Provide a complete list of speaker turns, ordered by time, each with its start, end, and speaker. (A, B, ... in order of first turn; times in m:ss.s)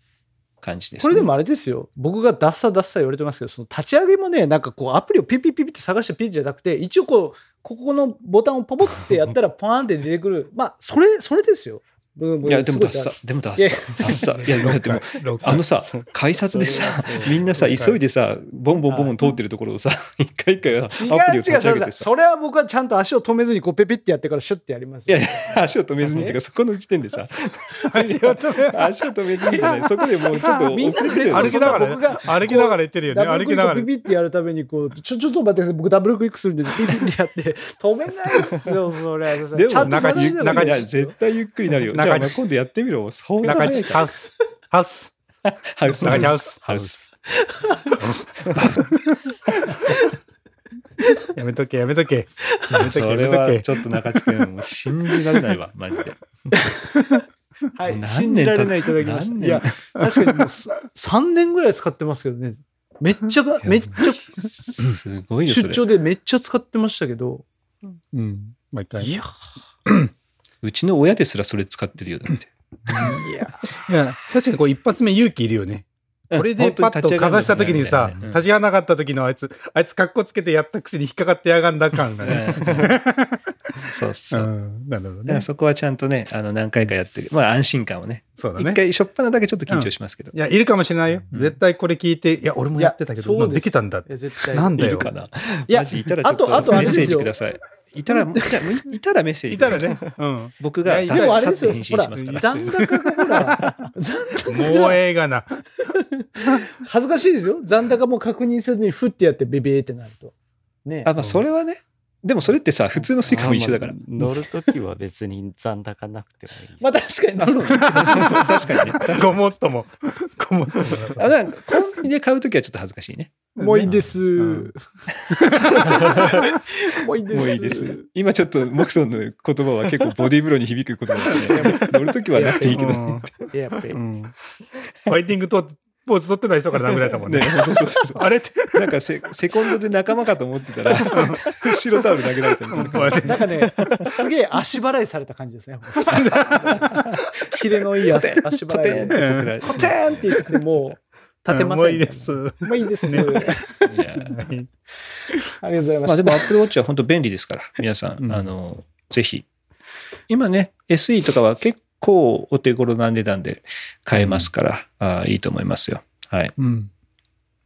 0:00.6-0:01.3 A
0:01.0-0:14.3 B
0:12.4-0:22.1 A
0:14.0-0:18.0 C
0:16.5-0:17.5 B
0:18.9-0:19.2 B
0:20.9-0:26.4 B
0:25.1-0:32.0 A
0:26.0-0:26.3 C
0:27.9-0:28.8 C
0:28.0-0:28.2 B
0:29.5-0:29.8 C
0:30.4-0:33.9 C
0:30.5-0:41.1 B
0:39.5-0:44.0 A
0:39.8-0:40.9 C
0:41.9-0:42.4 C
0:43.4-0:45.1 C
0:43.5-0:44.2 B
0:45.4-0:47.0 A
0:45.9-0:47.0 C
0:47.3-0:48.0 B
0:48.5-0:48.9 A
0:49.7-0:50.0 B
0:51.3-0:53.6 C
0:52.9-0:56.2 A
0:56.5-0:57.1 B
0:57.7-1:04.5 B
0:57.9-0:59.8 A
1:03.6-1:05.8 A
1:05.4-1:07.4 B
1:08.1-1:09.2 C
1:09.0-1:09.3 B
1:10.6-1:13.1 A
1:12.9-1:13.2 C
1:12.9-1:13.7 B
1:13.8-1:25.4 C
1:16.3-1:18.4 A
1:22.2-1:22.9 A
1:23.9-1:24.5 A
1:25.3-1:30.3 A
1:28.4-1:28.8 C
1:29.7-1:35.1 C
1:31.3-1:31.6 A
1:32.8-1:35.1 B
1:34.7-1:42.7 A
1:35.7-1:37.3 B
1:36.7-1:37.1 C
1:38.1-1:38.6 B
1:39.5-1:43.9 C
1:41.1-1:45.0 B
1:44.5-1:45.6 C
1:45.9-1:50.3 B
1:50.8-1:51.1 B
1:51.0-1:54.0 A
1:53.2-1:56.9 D
1:56.8-1:58.6 B
1:57.4-1:59.4 A
1:58.0-2:01.3 C
2:01.2-2:03.3 A
2:03.6-2:04.8 B
2:03.6-2:04.7 C
2:05.4-2:06.3 C
2:05.6-2:08.1 B
2:07.3-2:13.3 A
2:11.3-2:12.0 C
2:11.5-2:14.0 B
2:12.7-2:13.4 C
2:13.9-2:14.3 C
2:15.0-2:18.9 C
2:17.2-2:23.9 A
2:21.0-2:21.8 C
2:22.7-2:24.0 C
2:23.2-2:34.0 B
2:26.1-2:26.9 C
2:26.1-2:27.2 A
2:28.1-2:30.4 A
2:29.1-2:29.9 C
2:31.5-2:33.7 C
2:33.9-2:34.4 A
2:34.2-2:34.7 C
2:35.6-2:36.5 B
2:36.0-2:39.5 A
2:38.2-2:38.5 C
2:40.3-2:46.5 A
2:44.1-2:44.5 C
2:46.6-2:46.9 C